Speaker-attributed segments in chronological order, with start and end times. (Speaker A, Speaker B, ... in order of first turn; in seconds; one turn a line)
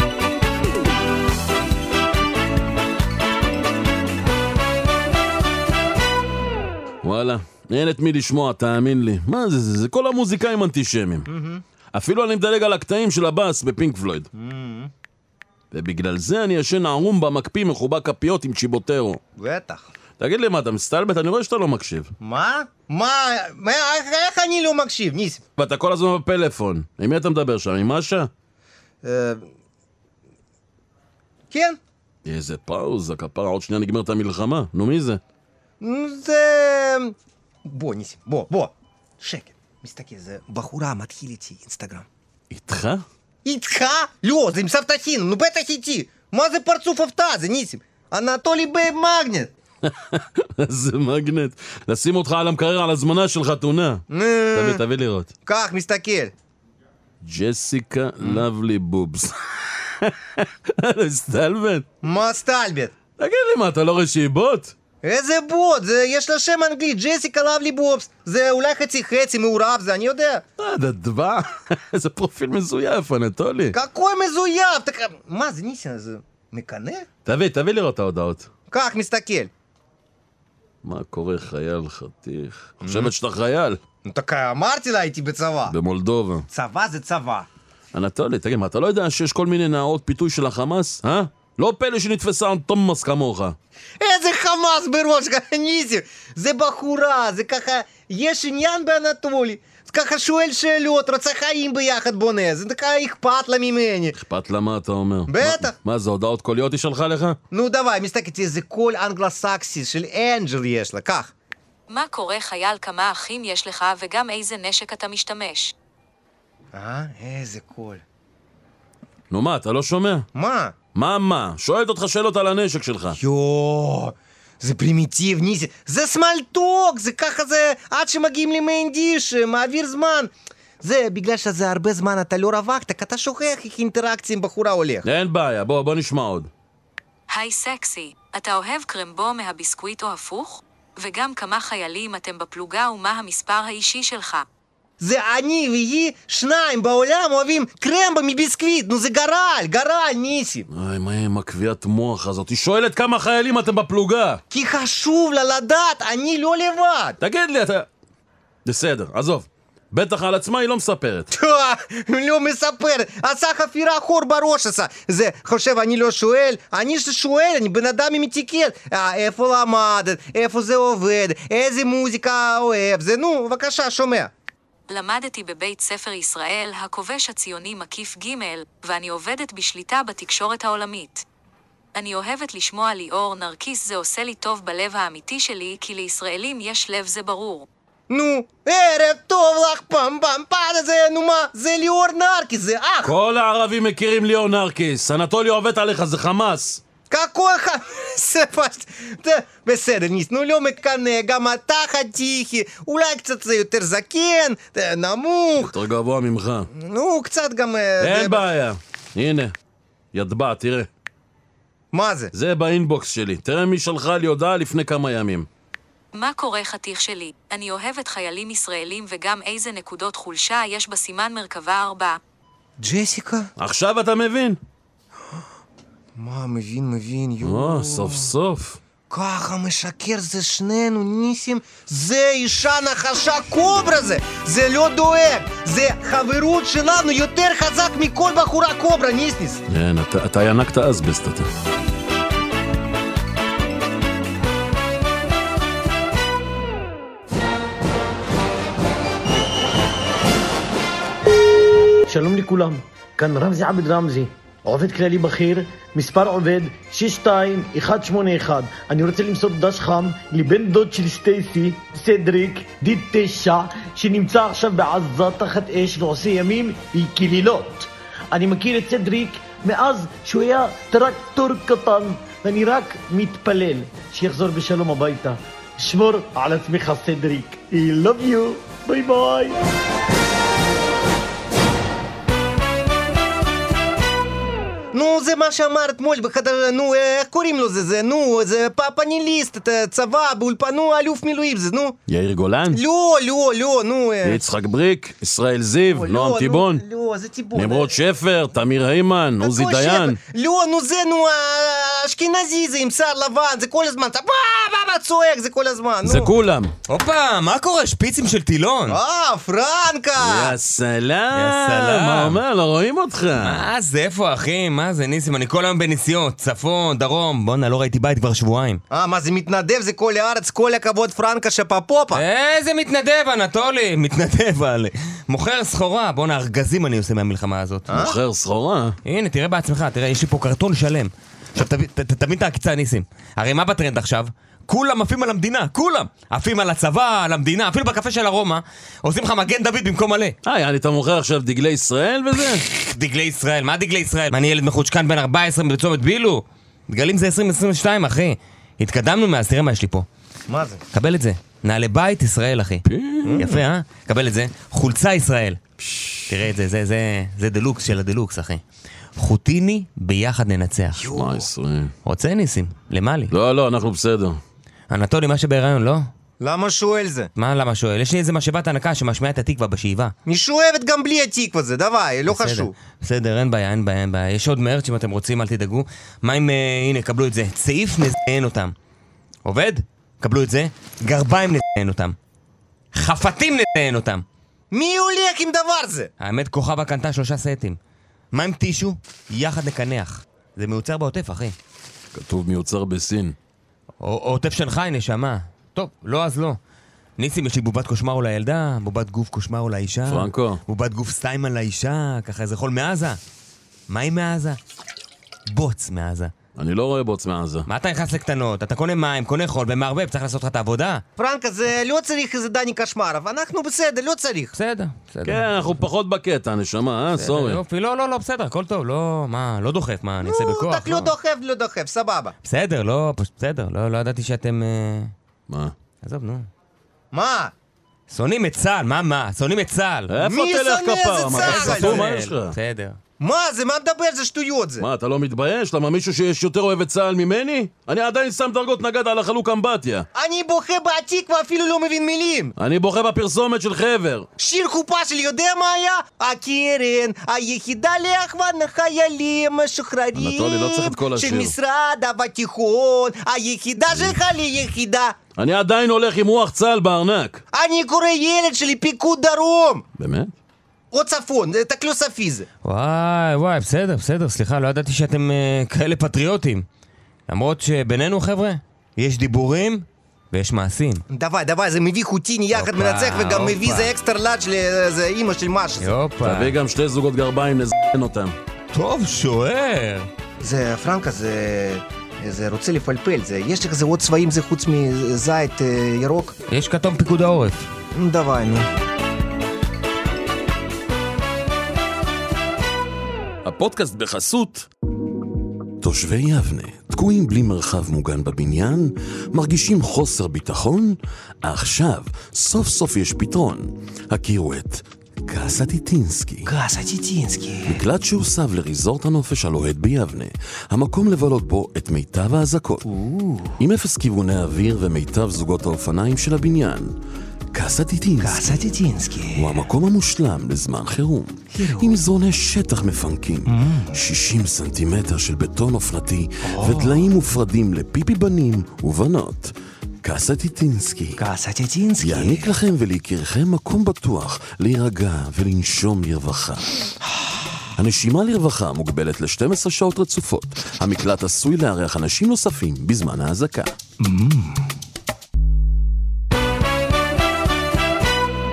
Speaker A: 7.0-11.3
Speaker B: 11.3-11.6
Speaker A: 11.9-14.3
Speaker B: 14.3-14.9
Speaker A: 15.7-19.2
Speaker B: 19.4-19.9
Speaker A: 20.2-22.1
Speaker B: 22.2-25.4
Speaker A: 25.6-28.3
Speaker B: 29.0-29.4
Speaker B: 31.5-31.8
Speaker A: 32.2-35.2
Speaker B: 35.8-42.1
Speaker A: 42.5-43.0
Speaker B: 43.5-49.5
Speaker A: 49.9-55.3
Speaker B: 54.1-54.8
Speaker B: 55.5-56.3
Speaker A: 57.2-61.9
Speaker B: 62.0-62.9
Speaker A: 63.2-64.8
Speaker B: 65.0-70.4
Speaker A: 70.6-73.8
Speaker B: 73.7-77.0
Speaker A: 77.2-78.5
Speaker B: 78.7-79.5
Speaker A: 80.8-83.8
Speaker B: 82.8-83.1
Speaker B: 84.0-85.8
Speaker A: 85.7-86.5
Speaker B: 86.5-87.5
Speaker A: 87.9-93.6
Speaker B: 94.0-104.2
Speaker A: 104.2-107.4
Speaker B: 105.3-105.8
Speaker B: 107.5-111.3
Speaker C: 111.9-115.7
Speaker B: 116.7-118.0
Speaker A: 119.3-120.3
Speaker B: 120.3-120.8
Speaker A: 120.9-123.2
Speaker B: 123.2-135.1
Speaker A: 135.0-136.5
Speaker C: 137.3-144.5
Speaker B: 145.0-150.7
Speaker A: 150.7-154.4
Speaker B: 154.5-157.2
Speaker A: 157.2-157.9
Speaker A: 158.7-161.3
Speaker B: 161.3-174.3
Speaker C: 174.9-181.2
Speaker C: 181.9-187.7
Speaker B: 188.1-193.1
Speaker A: 193.0-196.8
Speaker B: 197.1-205.7
Speaker A: 205.6-206.7
Speaker B: 206.7-208.5
Speaker A: 208.0-209.5
Speaker A: 210.1-210.9
Speaker B: 211.9-212.3
Speaker A: 212.3-215.5
Speaker C: 216.1-222.2
Speaker B: 222.8-223.5
Speaker A: 223.6-224.6
Speaker B: 226.2-228.3
Speaker A: 227.4-228.8
Speaker B: 229.1-239.6
Speaker A: 239.7-241.5
Speaker D: 252.1-279.6
Speaker B: 284.9-292.0
Speaker A: 292.1-292.8
Speaker B: 292.7-294.4
Speaker A: 294.2-296.8
Speaker B: 295.9-298.0
Speaker A: 297.5-300.2
Speaker B: 299.4-306.3
Speaker A: 306.0-306.7
Speaker E: 306.9-309.0
Speaker B: 308.9-310.6
Speaker A: 310.2-313.7
Speaker E: 311.3-312.4
Speaker E: 313.4-318.8
Speaker B: 318.9-322.2
Speaker E: 322.1-328.0
Speaker B: 327.9-328.2
Speaker A: 327.9-329.0
Speaker E: 329.1-340.4
Speaker A: 340.4-342.6
Speaker E: 342.6-350.1
Speaker B: 350.5-350.8
Speaker E: 350.9-352.9
Speaker A: 352.9-353.5
Speaker B: 353.2-353.5
Speaker E: 353.4-355.6
Speaker A: 355.9-356.2
Speaker E: 356.3-358.6
Speaker E: 359.2-361.1
Speaker B: 360.9-361.5
Speaker A: 361.1-361.9
Speaker E: 362.1-363.3
Speaker A: 363.3-364.4
Speaker E: 364.9-366.1
Speaker B: 366.4-367.3
Speaker E: 367.4-370.1
Speaker B: 370.3-372.7
Speaker E: 372.3-378.7
Speaker E: 379.4-382.1
Speaker E: 383.0-384.2
Speaker B: 384.7-386.1
Speaker E: 386.2-387.8
Speaker E: 388.3-391.6
Speaker A: 392.1-393.4
Speaker E: 394.0-396.6
Speaker E: 397.2-403.2
Speaker A: 400.1-400.6
Speaker E: 403.9-404.6
Speaker E: 405.5-406.3
Speaker A: 406.6-407.7
Speaker E: 407.7-411.0
Speaker B: 411.2-414.6
Speaker E: 414.5-415.8
Speaker A: 415.2-417.6
Speaker E: 417.1-421.1
Speaker B: 420.2-422.4
Speaker E: 422.4-425.1
Speaker A: 425.5-425.7
Speaker E: 426.0-426.5
Speaker B: 427.1-427.5
Speaker E: 428.1-430.1
Speaker A: 430.1-432.6
Speaker B: 430.2-432.1
Speaker E: 431.4-433.0
Speaker B: 433.2-434.9
Speaker A: 434.8-440.1
Speaker B: 440.1-442.5
Speaker A: 442.6-444.3
Speaker B: 444.4-455.2
Speaker A: 450.1-451.5
Speaker A: 453.9-454.2
Speaker A: 455.4-457.4
Speaker B: 457.5-459.8
Speaker A: 460.0-460.3
Speaker B: 460.9-462.5
Speaker E: 462.6-466.6
Speaker E: 467.3-471.0
Speaker B: 471.1-475.9
Speaker E: 472.5-473.9
Speaker E: 475.8-476.6
Speaker A: 476.2-478.4
Speaker E: 478.7-480.1
Speaker B: 480.4-486.3
Speaker E: 486.5-487.7
Speaker B: 487.9-488.7
Speaker A: 493.4-494.7
Speaker A: 495.8-506.5
Speaker B: 506.4-507.8
Speaker A: 507.7-512.9
Speaker B: 512.8-513.6
Speaker A: 513.6-517.0
Speaker A: 517.5-518.6
Speaker B: 518.2-519.7
Speaker A: 519.3-531.2
Speaker B: 521.5-522.0
Speaker B: 523.5-524.0
Speaker B: 526.4-527.1
Speaker B: 531.2-532.5
Speaker A: 532.0-536.7
Speaker A: 537.8-543.8
Speaker B: 544.0-544.5